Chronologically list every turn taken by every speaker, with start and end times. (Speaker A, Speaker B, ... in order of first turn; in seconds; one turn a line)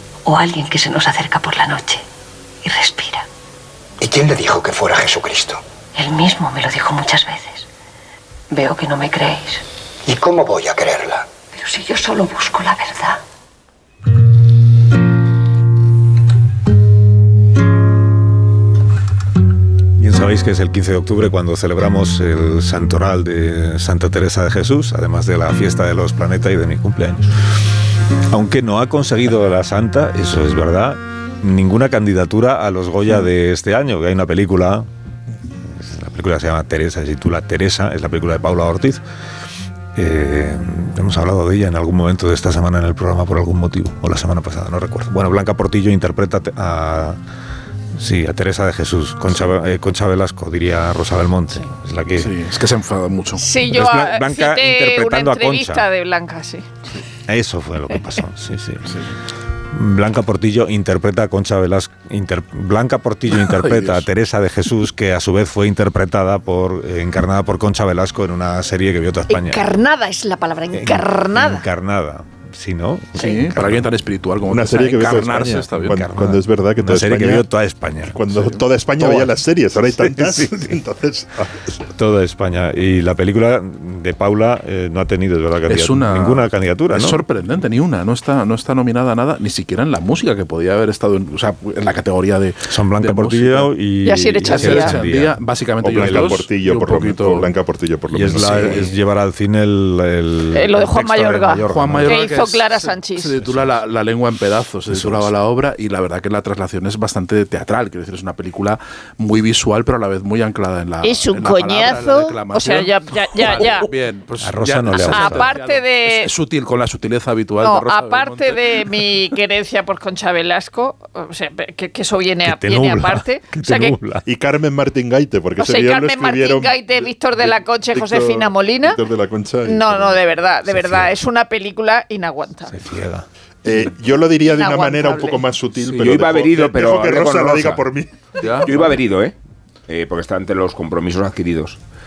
Speaker A: 0.2-2.0
Speaker A: 2.6-3.2
Speaker B: 4.0-5.6
Speaker A: 5.9-7.7
Speaker A: 8.5-9.6
Speaker B: 10.1-11.3
Speaker A: 11.5-13.2
Speaker C: 20.0-27.3
Speaker C: 28.3-34.9
Speaker C: 35.7-39.0
Speaker C: 39.9-47.2
Speaker C: 47.9-52.4
Speaker D: 52.1-53.5
Speaker E: 53.4-56.7
Speaker C: 53.7-55.8
Speaker C: 57.3-59.0
Speaker C: 59.7-69.6
Speaker D: 63.5-64.0
Speaker E: 69.3-71.6
Speaker C: 70.7-73.9
Speaker D: 73.1-76.0
Speaker F: 74.5-77.5
Speaker C: 75.8-79.3
Speaker F: 78.1-81.7
Speaker C: 79.9-80.8
Speaker C: 81.8-87.2
Speaker D: 85.7-93.7
Speaker C: 92.7-95.4
Speaker E: 94.0-95.0
Speaker D: 94.4-97.5
Speaker F: 95.8-98.9
Speaker C: 95.9-96.4
Speaker C: 98.1-102.3
Speaker D: 98.3-98.9
Speaker E: 100.5-103.4
Speaker D: 101.7-119.1
Speaker C: 104.9-105.3
Speaker E: 111.0-113.9
Speaker C: 114.4-115.5
Speaker E: 114.9-116.3
Speaker E: 117.6-124.0
Speaker C: 122.4-124.2
Speaker F: 124.2-130.2
Speaker E: 125.6-129.0
Speaker E: 129.6-132.8
Speaker C: 130.6-131.2
Speaker C: 132.7-133.2
Speaker F: 133.6-138.8
Speaker E: 134.4-135.4
Speaker G: 136.0-137.8
Speaker D: 138.4-138.7
Speaker G: 138.6-139.3
Speaker G: 139.9-141.8